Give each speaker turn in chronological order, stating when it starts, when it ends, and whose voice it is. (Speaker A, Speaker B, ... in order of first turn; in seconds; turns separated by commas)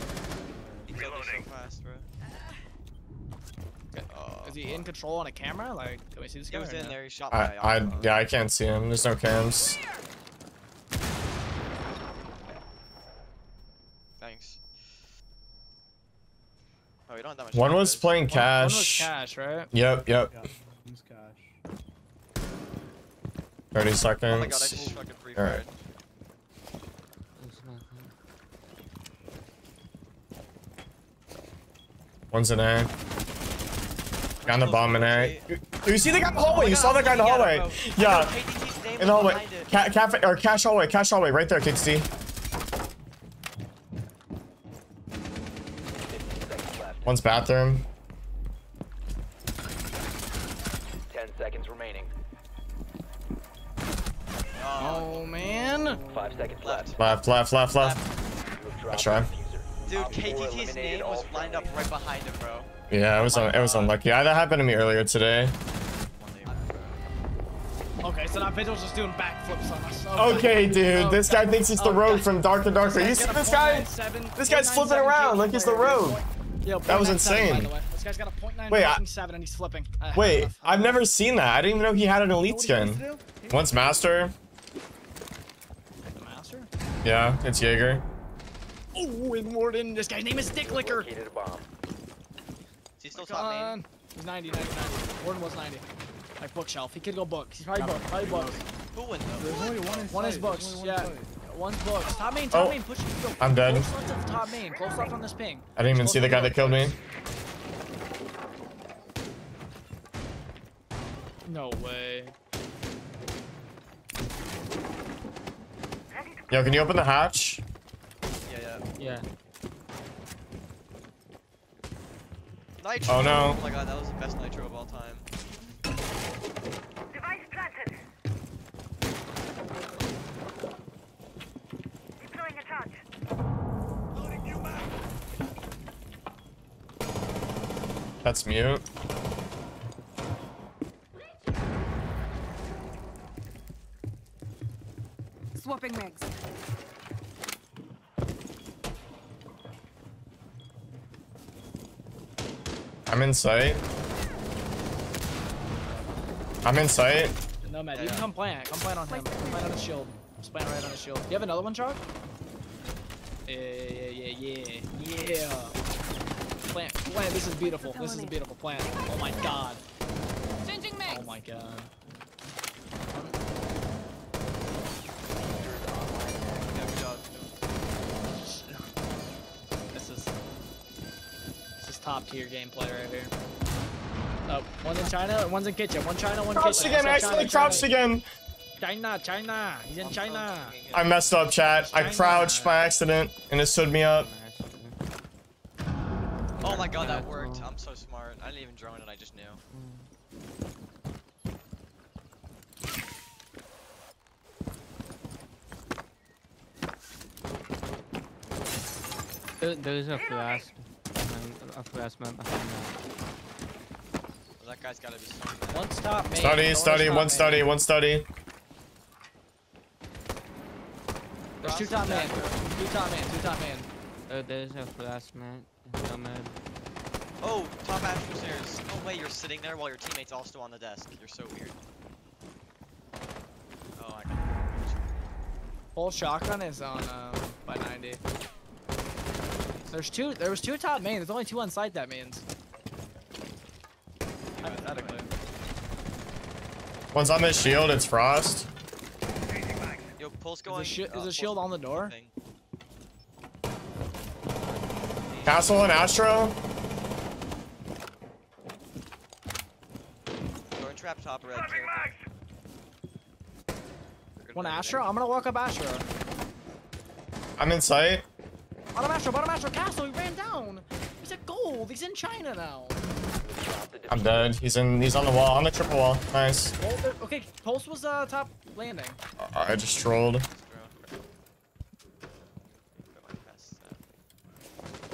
Speaker A: 0.4-1.1, Speaker B: 0.9-2.1, Speaker C: 3.9-7.0, Speaker B: 4.1-4.9, Speaker B: 6.5-8.2, Speaker D: 7.3-9.8, Speaker B: 14.2-15.0, Speaker B: 17.1-18.2, Speaker D: 17.5-19.1, Speaker C: 18.3-19.7, Speaker D: 19.7-20.3, Speaker A: 20.3-21.6, Speaker D: 23.7-24.8, Speaker B: 24.2-25.7, Speaker A: 24.8-25.0, Speaker D: 25.4-25.6, Speaker E: 27.4-28.1, Speaker D: 32.3-32.9, Speaker B: 34.4-35.4, Speaker D: 34.4-38.4, Speaker B: 36.5-39.7, Speaker D: 39.0-42.1, Speaker F: 46.0-47.2, Speaker D: 47.0-47.9, Speaker F: 51.1-52.1, Speaker B: 54.5-55.3, Speaker C: 54.8-56.0, Speaker A: 55.3-56.5, Speaker F: 56.1-57.1, Speaker B: 56.6-57.0, Speaker D: 57.0-58.0, Speaker B: 57.7-58.1, Speaker F: 58.5-61.9, Speaker D: 58.9-59.3, Speaker B: 59.9-62.7, Speaker D: 62.9-65.5, Speaker B: 63.3-63.9, Speaker B: 66.1-67.0, Speaker C: 68.0-81.0, Speaker D: 70.2-76.2, Speaker D: 76.9-77.7, Speaker D: 78.7-79.0, Speaker D: 80.1-84.3, Speaker A: 82.5-83.5, Speaker C: 86.2-86.7, Speaker D: 87.0-88.0, Speaker C: 88.9-91.1, Speaker F: 90.5-91.7, Speaker B: 93.0-93.8, Speaker C: 93.1-95.8, Speaker C: 96.4-98.6, Speaker A: 97.7-98.6, Speaker B: 98.9-100.2, Speaker A: 99.3-101.4, Speaker C: 100.1-107.0, Speaker D: 102.5-102.8, Speaker D: 103.4-103.9, Speaker G: 104.7-105.1, Speaker D: 105.8-106.9, Speaker C: 111.5-112.3, Speaker D: 116.5-117.6, Speaker B: 118.4-118.8, Speaker E: 119.0-119.2, Speaker B: 122.8-125.3, Speaker D: 123.1-123.6, Speaker G: 132.4-132.9, Speaker D: 138.2-138.8, Speaker G: 145.6-146.3, Speaker D: 153.1-153.8, Speaker A: 155.8-156.2, Speaker D: 156.6-157.3, Speaker C: 157.6-162.0, Speaker B: 157.9-158.3, Speaker G: 159.1-159.8, Speaker C: 163.5-165.8, Speaker C: 166.6-169.8, Speaker G: 167.5-168.4, Speaker G: 170.6-171.3, Speaker C: 171.0-171.9, Speaker C: 173.1-173.3, Speaker F: 175.4-176.9, Speaker B: 176.5-177.5, Speaker C: 178.3-178.8, Speaker C: 179.9-180.3, Speaker C: 181.8-183.3, Speaker C: 184.5-187.9, Speaker D: 186.5-188.2, Speaker F: 186.7-187.5, Speaker E: 187.5-187.8, Speaker C: 188.8-190.8, Speaker A: 190.0-190.9, Speaker B: 190.3-191.0, Speaker D: 190.9-194.3, Speaker C: 191.8-192.8, Speaker E: 194.1-194.9, Speaker E: 196.6-197.7, Speaker B: 196.6-199.6, Speaker E: 199.7-200.1, Speaker E: 209.6-212.9, Speaker B: 214.6-216.0, Speaker C: 215.7-217.7, Speaker D: 216.3-218.2, Speaker B: 221.6-222.7, Speaker C: 221.6-223.9, Speaker E: 224.3-226.6, Speaker B: 227.4-231.8, Speaker B: 234.0-235.1, Speaker C: 235.9-238.2, Speaker B: 239.6-240.2, Speaker C: 239.9-242.4, Speaker B: 244.5-245.3, Speaker C: 244.6-245.3, Speaker D: 247.1-248.7, Speaker B: 250.2-252.3, Speaker C: 250.7-252.1, Speaker B: 255.3-255.8, Speaker D: 255.4-256.5, Speaker B: 260.7-262.1, Speaker B: 264.4-265.1, Speaker C: 264.5-266.1, Speaker D: 267.6-268.2, Speaker C: 268.9-273.0, Speaker F: 273.4-274.6, Speaker D: 274.1-276.7, Speaker C: 276.8-279.2, Speaker D: 279.4-280.4, Speaker B: 280.4-281.1, Speaker B: 282.9-284.0